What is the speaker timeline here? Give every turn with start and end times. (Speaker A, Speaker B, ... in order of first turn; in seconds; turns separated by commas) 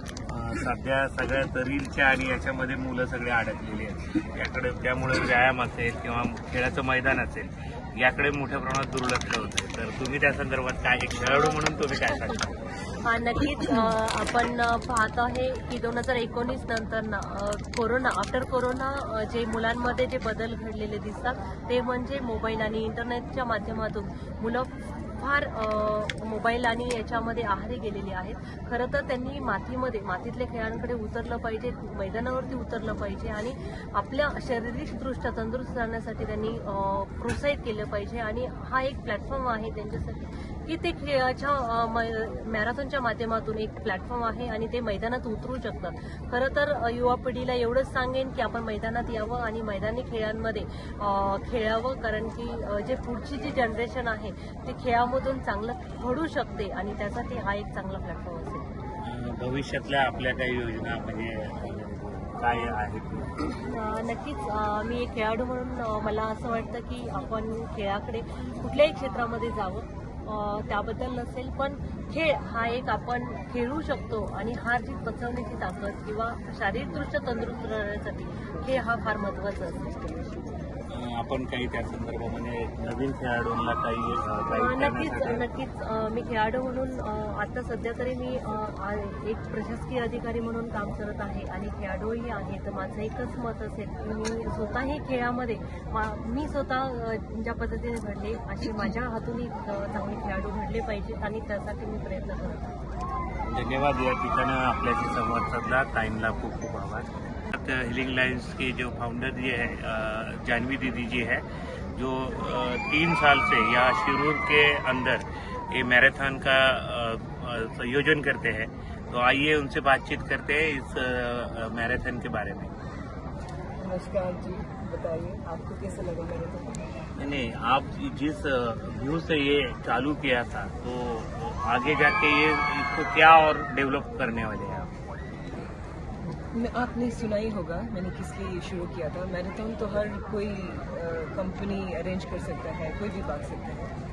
Speaker A: 0.3-12.7, Speaker B: 13.0-58.7, Speaker A: 59.0-63.3, Speaker B: 63.6-79.9, Speaker C: 76.7-77.1, Speaker C: 78.6-78.9, Speaker C: 79.7-80.8, Speaker A: 80.9-85.4, Speaker B: 84.5-102.7, Speaker A: 103.5-111.4, Speaker A: 112.0-122.7, Speaker C: 123.8-126.8, Speaker A: 127.2-134.9, Speaker C: 136.5-143.9